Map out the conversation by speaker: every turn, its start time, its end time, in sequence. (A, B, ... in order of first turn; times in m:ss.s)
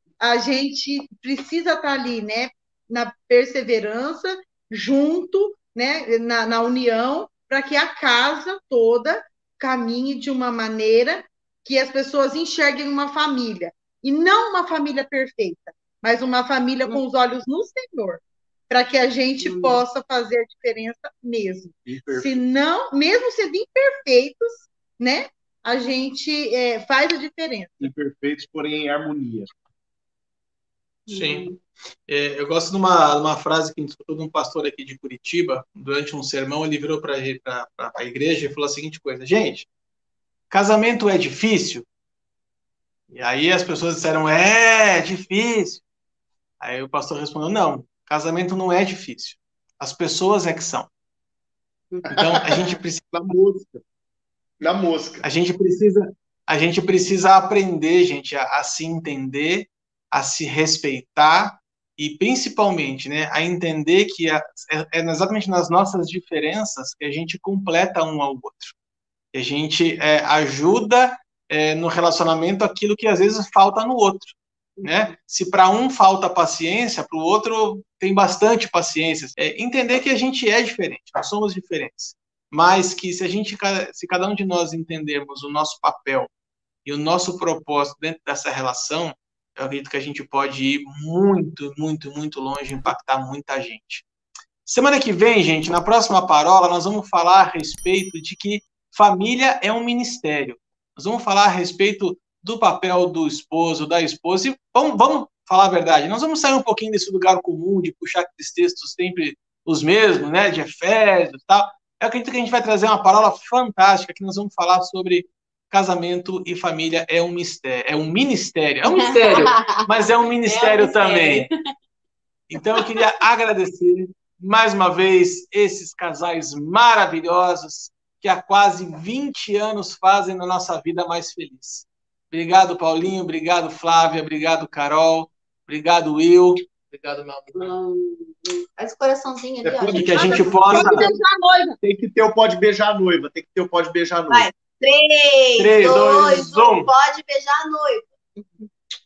0:00.2-0:27.9 A
0:19.4-0:19.8 B
0:21.9-0:22.3 C
0:27.8-0:29.5 C
0:31.1-0:31.6 B
0:31.1-0:31.5 D
0:32.1-0:39.7 D
0:40.5-0:41.9 D
0:43.1-0:45.8 D
0:46.6-0:50.9 D
0:52.1-0:53.0 D
0:53.1-0:53.8 C
0:54.6-0:55.2 C
0:55.2-1:08.7 D
1:09.3-1:26.3 D
1:14.8-1:15.1 B
1:26.8-1:34.0 D
1:34.7-2:01.5 D
1:58.8-2:01.6 B
2:02.5-2:17.7 D
2:02.7-2:03.0 B
2:17.5-2:21.1 B
2:19.6-2:21.0 C
2:19.9-2:21.1 D
2:20.7-2:21.8 A
2:21.8-2:24.5 C
2:24.3-2:28.7 B
2:25.6-2:26.9 D